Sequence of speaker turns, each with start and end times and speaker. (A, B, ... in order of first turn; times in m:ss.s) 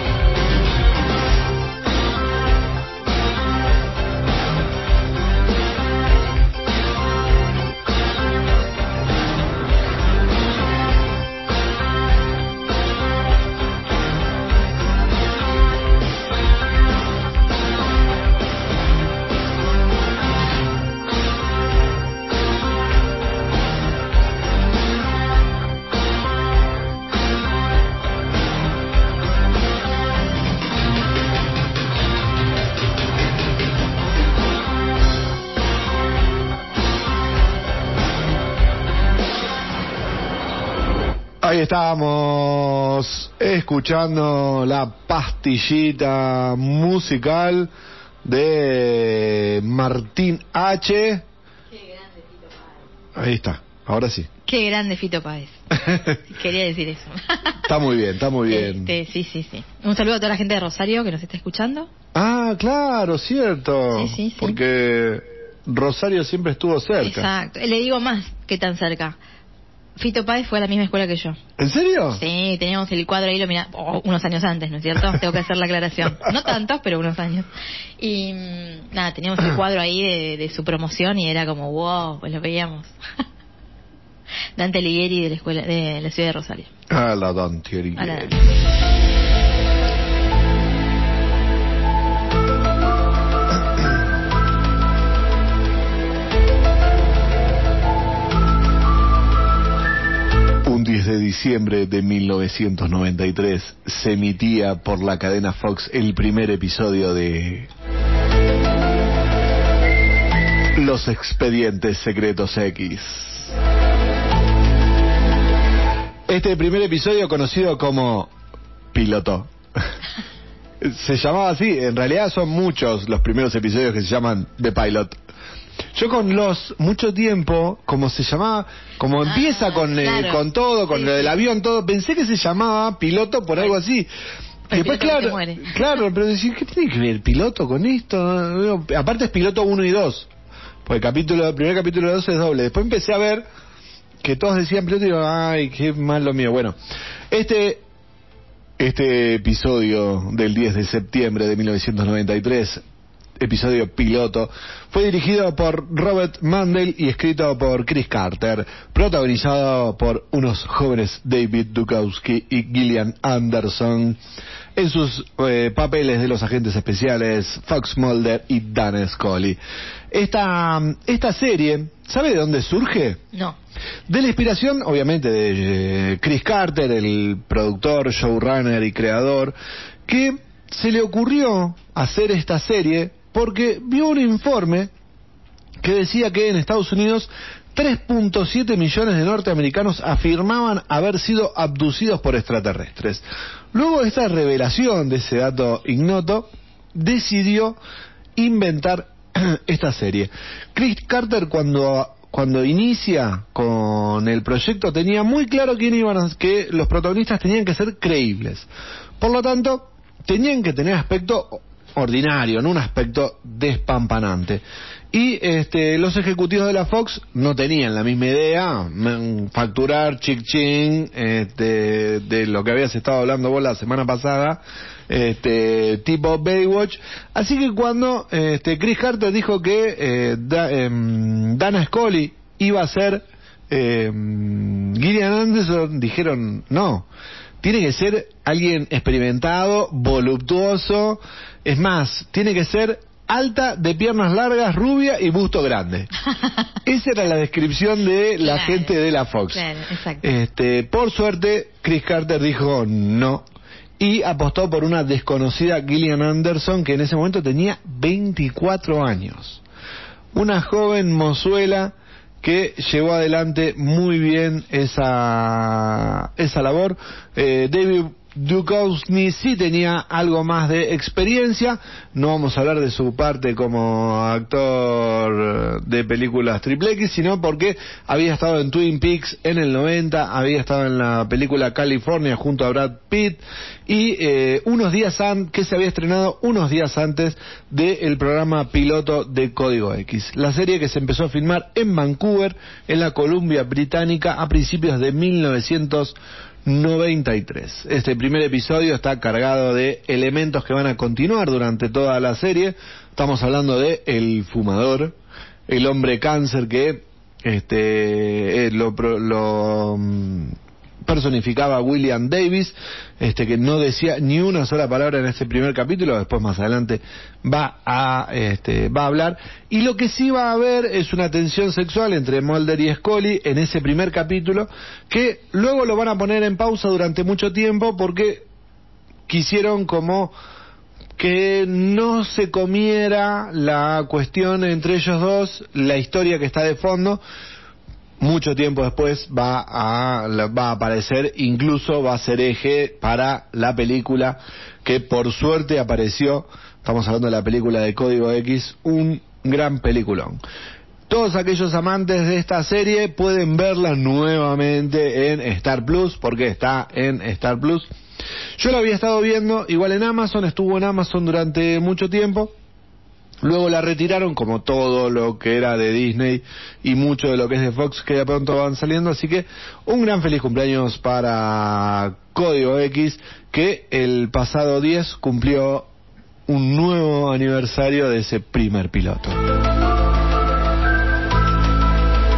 0:41.4-0:47.7 A
0:48.2-0:51.2 A
0:51.7-0:52.8 B
0:53.1-0:54.3 A
0:54.4-0:57.6 B
0:55.7-0:56.2 A
0:57.6-0:58.9 A
0:58.4-1:01.9 B
1:02.1-1:07.3 A
1:03.9-1:04.6 B
1:07.0-1:09.2 B
1:10.0-1:11.4 B
1:11.6-1:12.2 A
1:12.1-1:22.9 B
1:24.6-1:26.7 B
1:26.9-1:28.4 A
1:28.0-1:28.4 B
1:40.6-1:47.7 A
1:50.7-1:53.5 A
1:56.3-1:58.3 A
1:58.9-1:59.9 A
2:00.8-2:05.2 A
2:05.9-2:14.1 A
2:09.2-2:11.3 B
2:14.7-2:15.8 B
2:14.7-2:20.3 A
2:20.8-2:23.4 A
2:24.2-2:26.8 A
2:27.3-2:27.8 A
2:28.8-2:32.8 A
2:33.4-2:44.2 A
2:44.8-2:49.6 A
2:50.1-2:53.2 A
2:54.1-2:59.5 A
3:00.1-3:04.9 A
3:05.8-3:17.8 A
3:18.4-3:28.7 A
3:29.2-3:57.1 A
3:57.6-4:06.1 A
4:06.8-4:09.6 A
4:08.4-4:08.9 B
4:09.5-4:10.2 B
4:10.2-4:13.4 A
4:14.0-4:19.6 A
4:20.3-5:05.1 A
5:05.7-5:28.4 A
5:29.3-5:30.3 A
5:31.2-5:37.2 A
5:38.2-5:50.4 A
5:51.1-5:57.9 A
5:58.6-6:02.5 A
6:03.4-6:15.9 A
6:16.5-6:19.4 A